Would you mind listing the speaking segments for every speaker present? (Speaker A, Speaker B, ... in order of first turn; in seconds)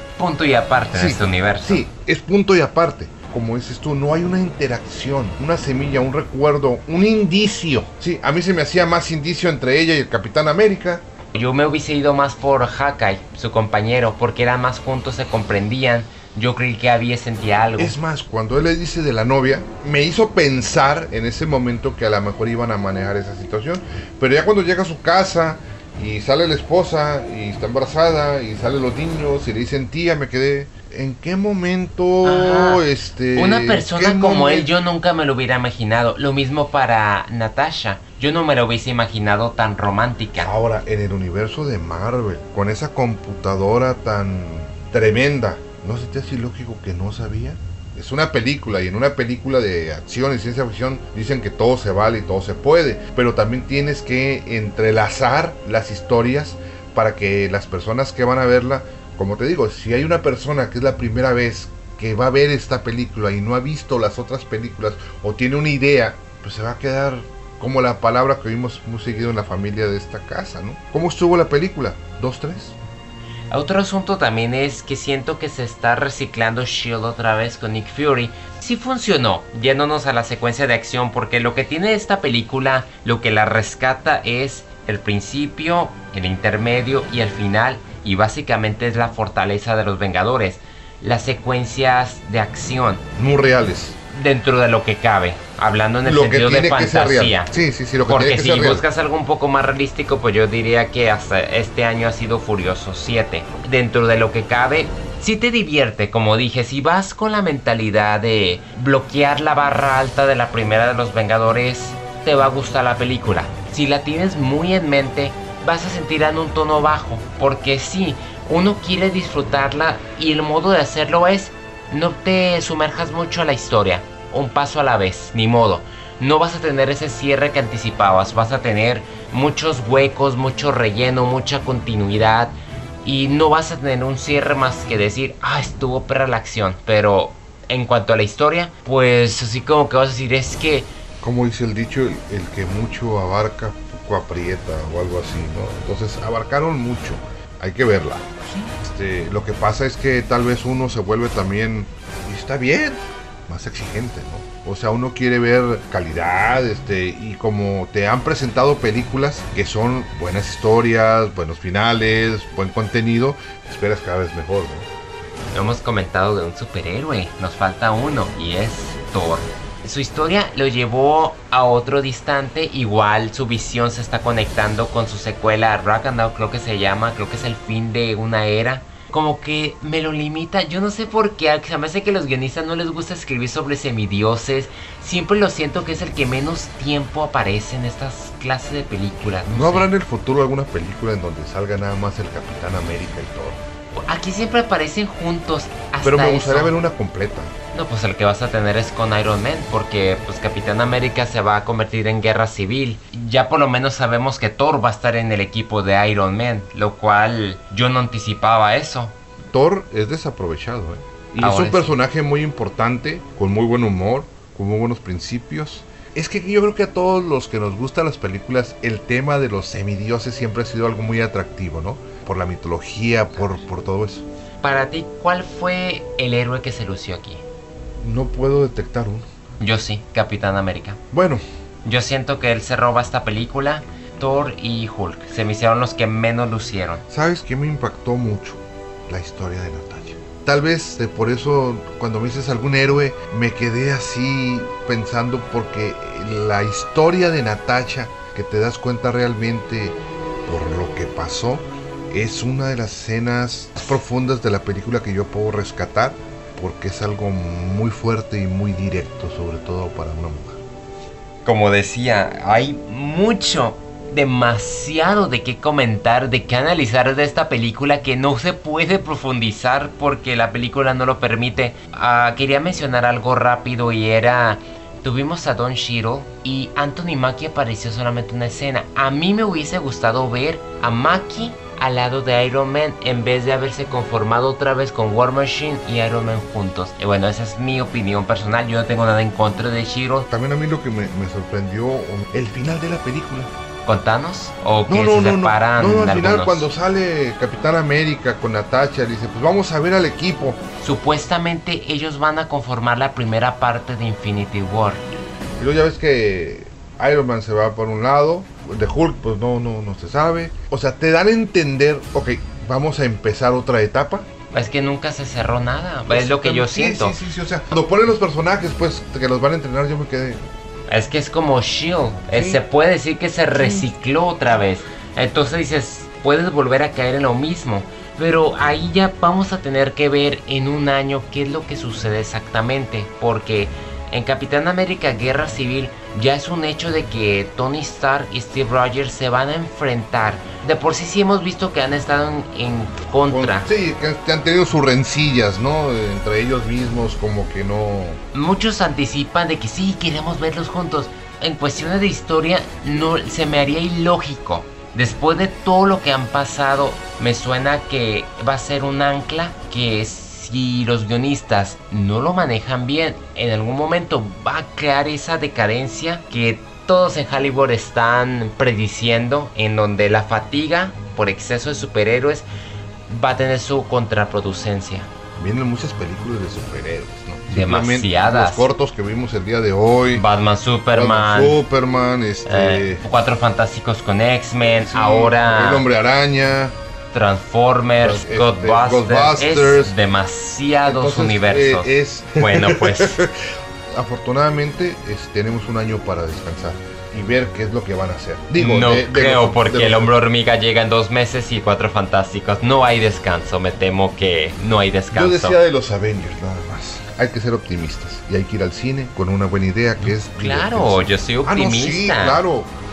Speaker A: 0.2-1.9, 11.3-18.0, 32.2-40.5, 73.5-93.0, 94.1-97.5, 98.1-140.9, 165.5-189.9, 193.9-196.8, 197.7-209.2, 211.4-211.9, 224.6-227.4, 229.6-231.0, 231.8-237.0, 261.4-290.3, 293.9-296.7, 300.8-305.0, 314.5-317.2, 320.9-343.7, 348.3-372.5, 373.1-375.1, 377.5-378.7, 380.1-381.6, 382.4-385.9, 387.1-393.2, 398.6-405.6, 410.0-412.4
Speaker B: 0.9-11.1, 17.8-34.7, 40.4-72.8, 93.2-94.0, 96.0-98.8, 141.2-164.9, 189.4-193.6, 196.0-197.5, 209.5-224.2, 228.0-229.3, 231.1-231.4, 237.1-260.6, 290.3-293.5, 294.9-300.6, 305.6-314.3, 316.1-320.4, 322.3-322.6, 323.6-323.9, 343.3-348.2, 375.4-380.2, 380.9-383.0, 384.7-386.8, 388.0-389.9, 390.9-393.4, 393.9-400.1, 405.1-412.7